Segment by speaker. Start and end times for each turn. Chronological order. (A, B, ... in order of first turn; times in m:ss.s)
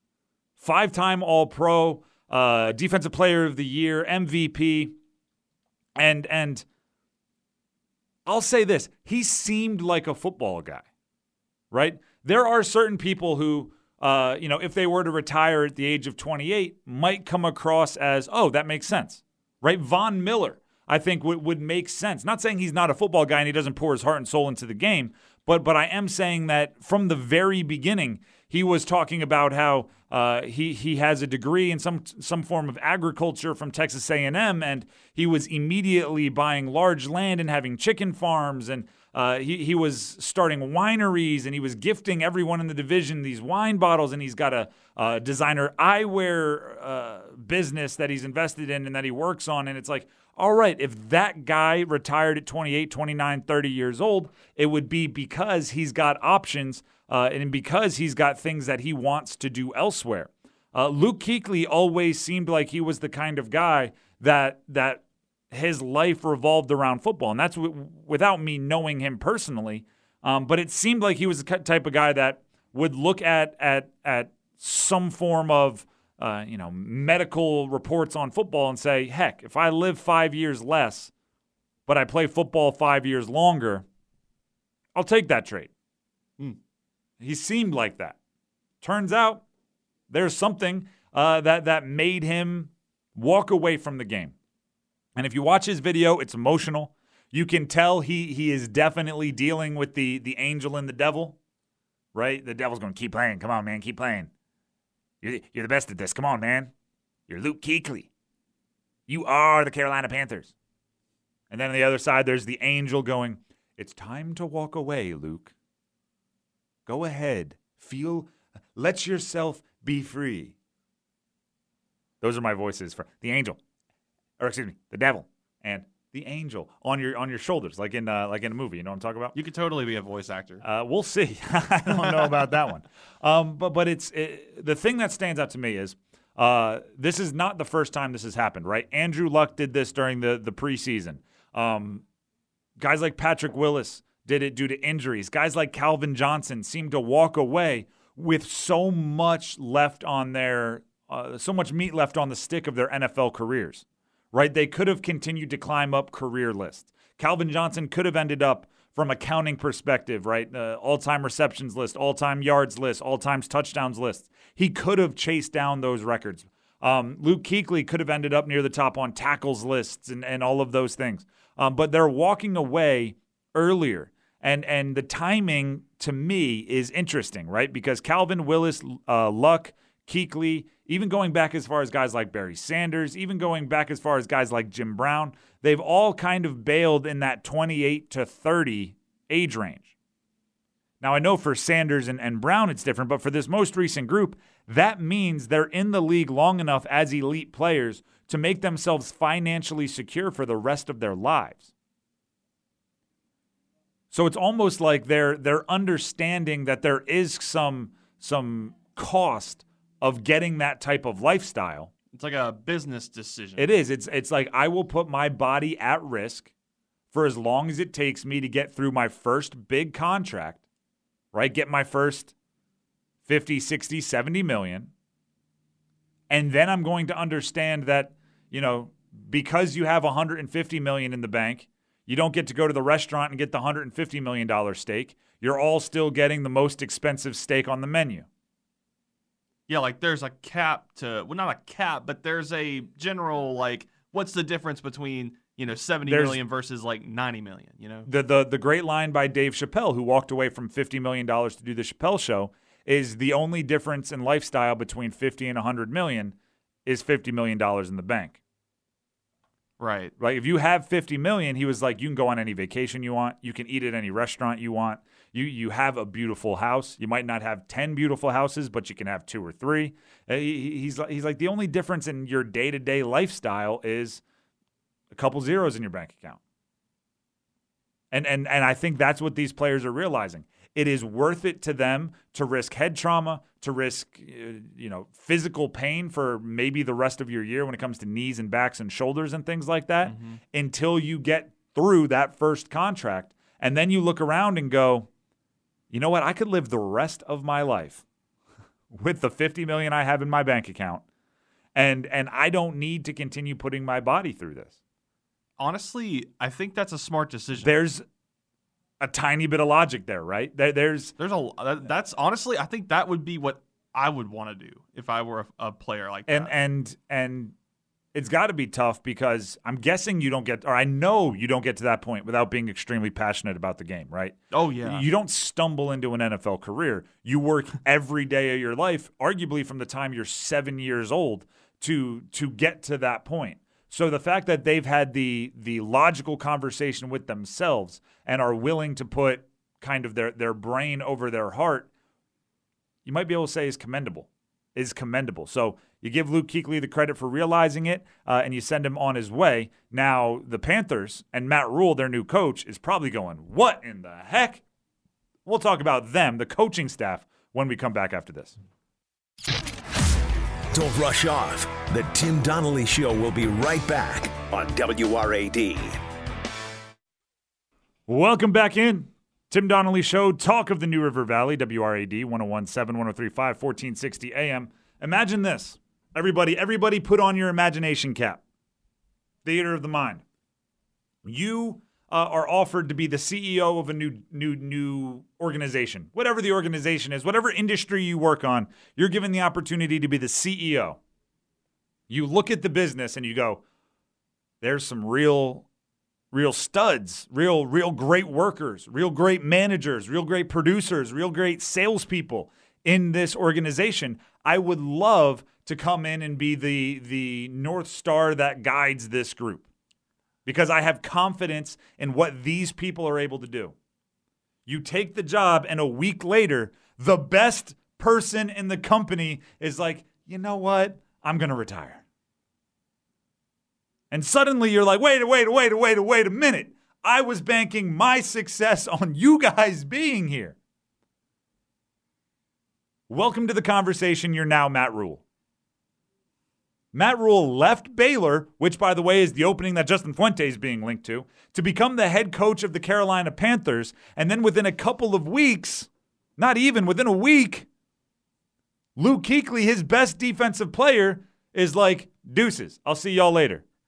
0:00.6-0:04.9 A
0:06.0-0:06.6 A
0:08.2-0:10.8 A
0:11.7-1:21.1 A
1:21.9-1:23.8 A
1:24.9-1:25.7 A
1:27.2-1:28.2 A
1:28.8-1:29.4 A
1:30.1-1:34.3 A
1:35.2-1:41.4 A
1:42.1-1:44.3 A
1:45.2-1:46.7 A
1:47.3-1:48.1 A
1:49.1-1:50.5 A
1:51.5-1:55.5 A
1:56.8-2:00.5 A
2:02.2-2:03.6 A
2:04.4-2:09.3 A
2:09.3-2:10.6 B
2:10.6-2:22.0 A
2:12.0-2:12.4 B
2:22.8-3:09.9 A
3:11.0-3:21.6 A
3:24.1-3:31.9 A
3:32.1-3:33.7 B
3:33.6-3:36.5 A
3:37.1-3:40.6 A
3:41.3-3:42.3 A
3:43.2-3:44.9 A
3:46.3-3:58.2 A
3:59.7-4:08.1 B
4:06.0-4:06.4 A
4:08.0-4:18.4 A
4:19.8-4:20.1 B
4:20.2-4:34.2 A
4:35.1-4:36.4 A
4:38.1-4:55.1 A
4:50.0-4:50.4 B
4:55.9-4:58.0 A
4:58.9-5:01.0 A
5:01.7-5:04.7 A
5:05.6-5:07.7 B
5:07.6-5:08.0 A
5:09.0-5:11.1 A
5:11.2-5:16.5 B
5:16.3-5:17.5 A
5:18.1-5:41.9 A
5:24.5-5:25.0 B
5:43.0-5:54.6 A
5:55.4-5:58.6 A
6:00.7-6:06.0 C
6:08.1-6:18.4 A
6:19.4-6:20.2 A
6:21.2-6:31.0 A
6:32.1-6:33.6 A
6:34.6-6:35.7 A
6:36.3-6:49.6 A
6:50.4-6:53.7 A
6:54.6-7:02.0 A
7:04.1-7:10.6 A
7:13.1-7:15.2 A
7:16.9-7:27.7 A
7:29.0-7:33.6 A